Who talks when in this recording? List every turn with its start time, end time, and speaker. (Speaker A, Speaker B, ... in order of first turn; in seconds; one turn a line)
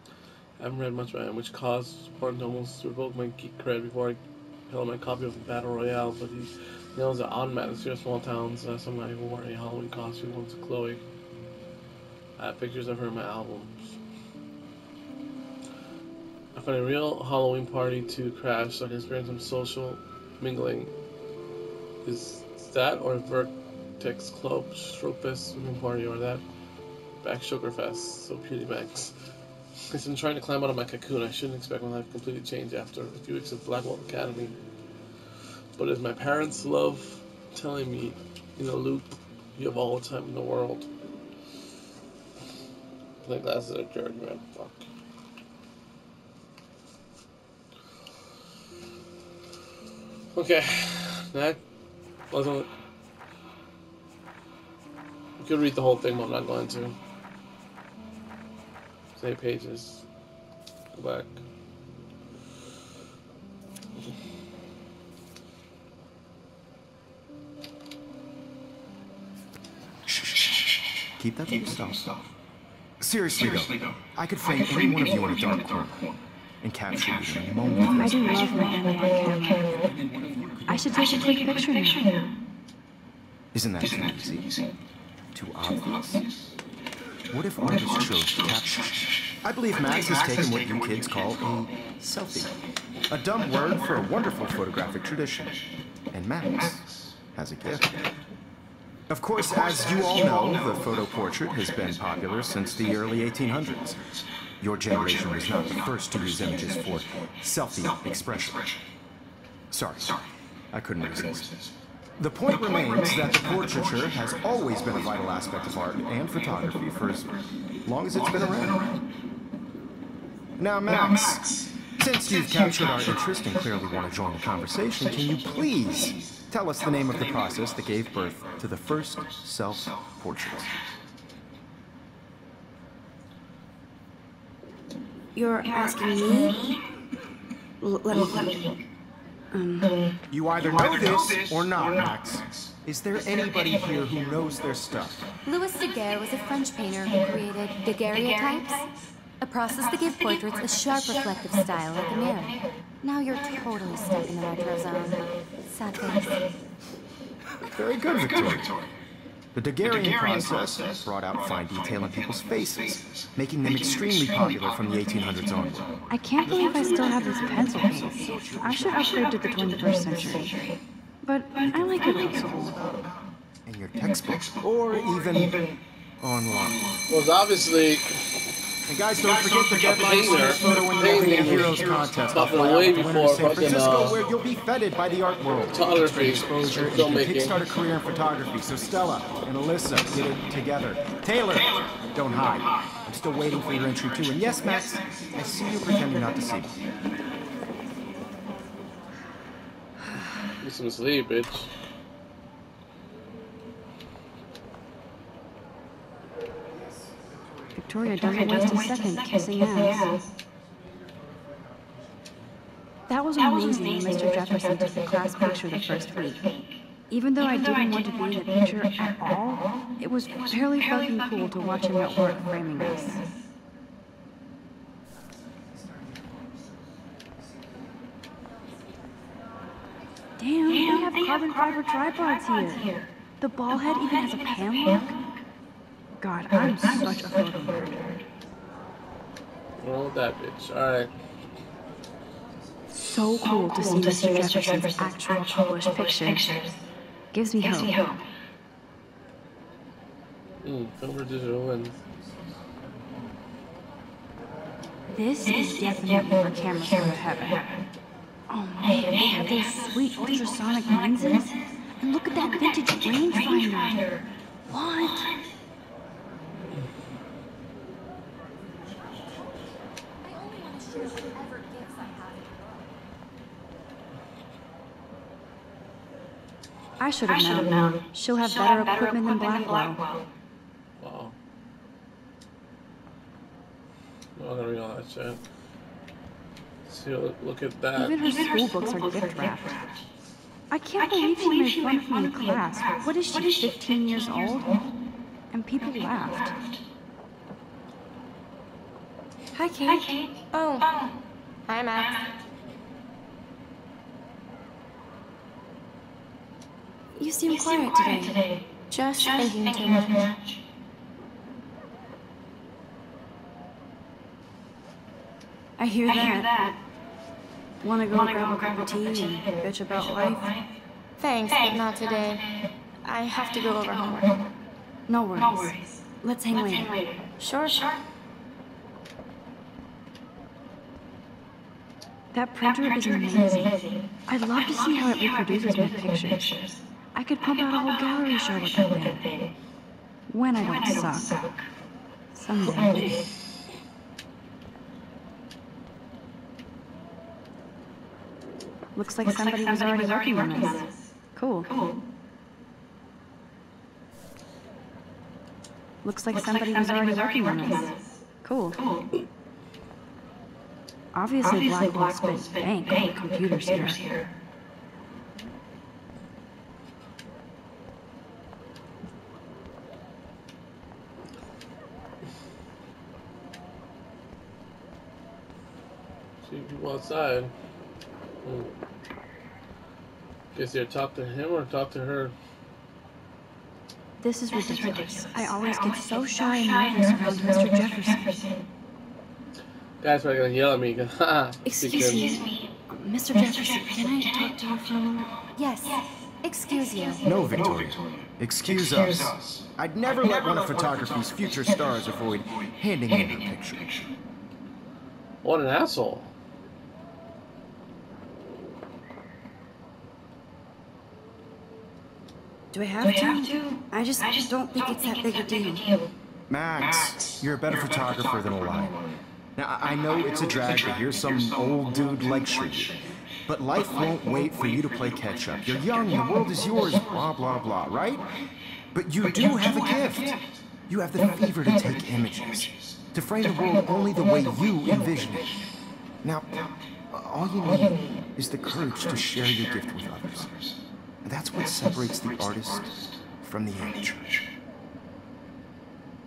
Speaker A: 0.6-11.0
Speaker A: 12.4-14.0
Speaker A: 16.5-20.9
Speaker A: 22.0-26.4
Speaker A: 27.2-29.1
Speaker A: 29.9-34.6
Speaker A: 35.8-40.9
Speaker A: 43.2-44.9
Speaker A: 50.3-51.6
Speaker A: 52.3-52.7
Speaker A: 55.4-57.0
Speaker A: 59.2-60.0
Speaker A: 60.9-61.4
Speaker B: 70.1-70.4
Speaker B: 71.2-72.1
Speaker B: 73.0-76.1
Speaker B: 76.6-78.7
Speaker C: 77.9-79.7
Speaker B: 79.7-81.2
Speaker C: 80.7-82.0
Speaker B: 83.5-84.5
Speaker B: 85.3-86.3
Speaker B: 87.3-92.5
Speaker B: 93.1-95.6
Speaker B: 96.1-98.0
Speaker B: 99.1-104.0
Speaker B: 104.6-108.7
Speaker B: 109.7-110.2
Speaker B: 110.7-111.5
Speaker B: 112.2-117.3
Speaker B: 117.8-118.8
Speaker B: 120.6-130.7
Speaker C: 135.3-136.7
Speaker C: 137.8-138.6
Speaker C: 139.5-140.0
Speaker B: 140.3-145.3
Speaker D: 145.4-148.8
Speaker D: 149.4-156.4
Speaker B: 157.7-158.7
Speaker B: 159.5-169.2
Speaker C: 166.1-170.6
Speaker C: 171.2-172.7
Speaker B: 171.7-173.1
Speaker B: 173.7-175.6
Speaker B: 176.2-176.8
Speaker A: 177.1-178.4
Speaker B: 178.9-196.8
Speaker A: 179.8-184.2
Speaker A: 185.7-187.6
Speaker A: 200.6-201.7
Speaker C: 207.8-210.1
Speaker C: 213.1-216.5
Speaker C: 217.1-223.2
Speaker C: 230.4-232.9
Speaker C: 233.4-235.2
Speaker C: 236.2-238.1
Speaker A: 239.8-241.1
Speaker C: 242.9-246.7
Speaker C: 247.3-248.0
Speaker A: 250.6-252.0
Speaker C: 255.1-257.6
Speaker C: 258.5-264.0
Speaker C: 264.7-265.3
Speaker D: 270.2-272.8
Speaker C: 277.0-280.1
Speaker A: 281.0-281.3
Speaker A: 284.4-285.4
Speaker A: 286.9-288.1
Speaker C: 287.9-289.9
Speaker C: 290.7-294.8
Speaker C: 295.5-296.5
Speaker C: 299.5-300.2
Speaker C: 307.1-308.4
Speaker C: 315.8-316.7
Speaker C: 317.8-320.5
Speaker C: 325.1-328.0
Speaker C: 332.3-336.6
Speaker C: 337.1-339.3
Speaker C: 340.3-341.4
Speaker C: 342.3-343.1
Speaker C: 348.9-351.7
Speaker C: 356.0-358.8
Speaker C: 361.1-364.0
Speaker A: 376.4-377.5
Speaker A: 378.4-378.7
Speaker A: 380.5-382.3
Speaker C: 384.2-388.4
Speaker A: 390.0-392.3
Speaker C: 391.6-395.3
Speaker D: 395.6-397.2
Speaker B: 397.2-403.9
Speaker A: 405.4-406.3
Speaker C: 412.7-415.9
Speaker B: 416.5-418.9
Speaker B: 419.6-428.2
Speaker B: 428.9-435.5
Speaker B: 436.2-436.5
Speaker B: 437.1-440.6
Speaker B: 441.2-444.4